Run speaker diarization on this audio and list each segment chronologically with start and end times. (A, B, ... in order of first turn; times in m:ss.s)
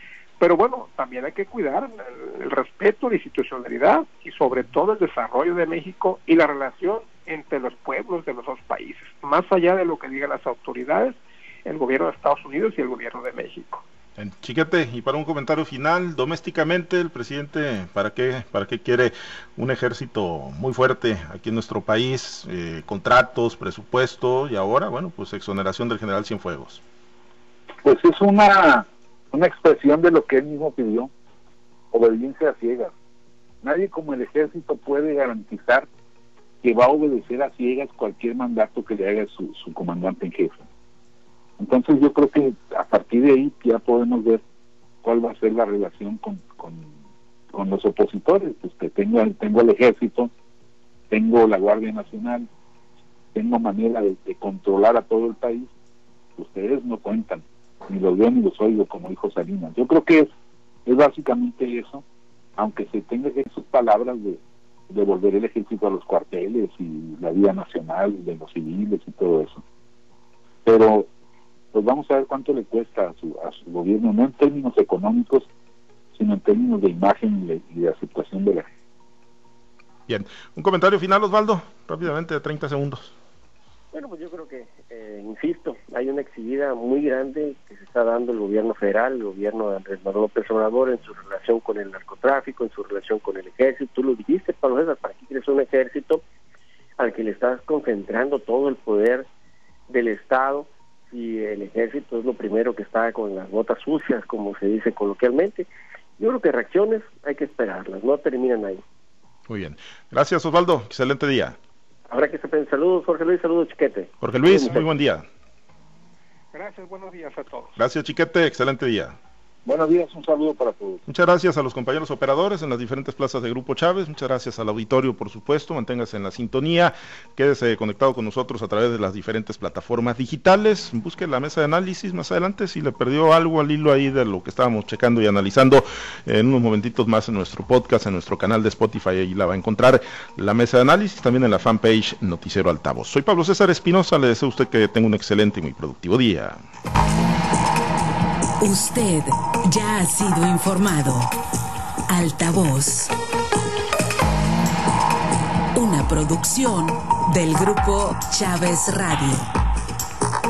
0:00.4-0:13.8 A
0:14.2-0:26.8 B
0:27.8-0:31.1 C
0:31.9-0:32.9 C
0:33.6-0:35.9 C
0:36.6-0:40.6 C
0:41.6-0:44.4 C
0:45.0-0:46.9 C
0:47.5-0:50.3 C
0:51.1-0:52.5 C
0:53.3-0:55.7 C
0:56.4-1:00.3 C
1:00.9-1:02.0 C
1:02.6-1:09.6 C
1:10.6-1:11.1 C
1:11.7-1:15.5 C
1:16.2-1:18.7 C
1:20.1-1:23.1 B
1:23.9-1:36.2 D
1:37.0-1:39.3 D
1:39.9-1:45.7 D
1:46.2-1:48.8 D
1:49.5-1:51.6 B
1:52.1-1:54.8 D
1:54.2-1:55.2 B
1:56.5-1:57.8 A
1:57.8-1:59.2 B
1:59.6-2:01.0 C
2:01.1-2:26.6 B
2:28.6-2:31.3 E
2:32.1-2:33.1 E
2:35.8-2:39.5 E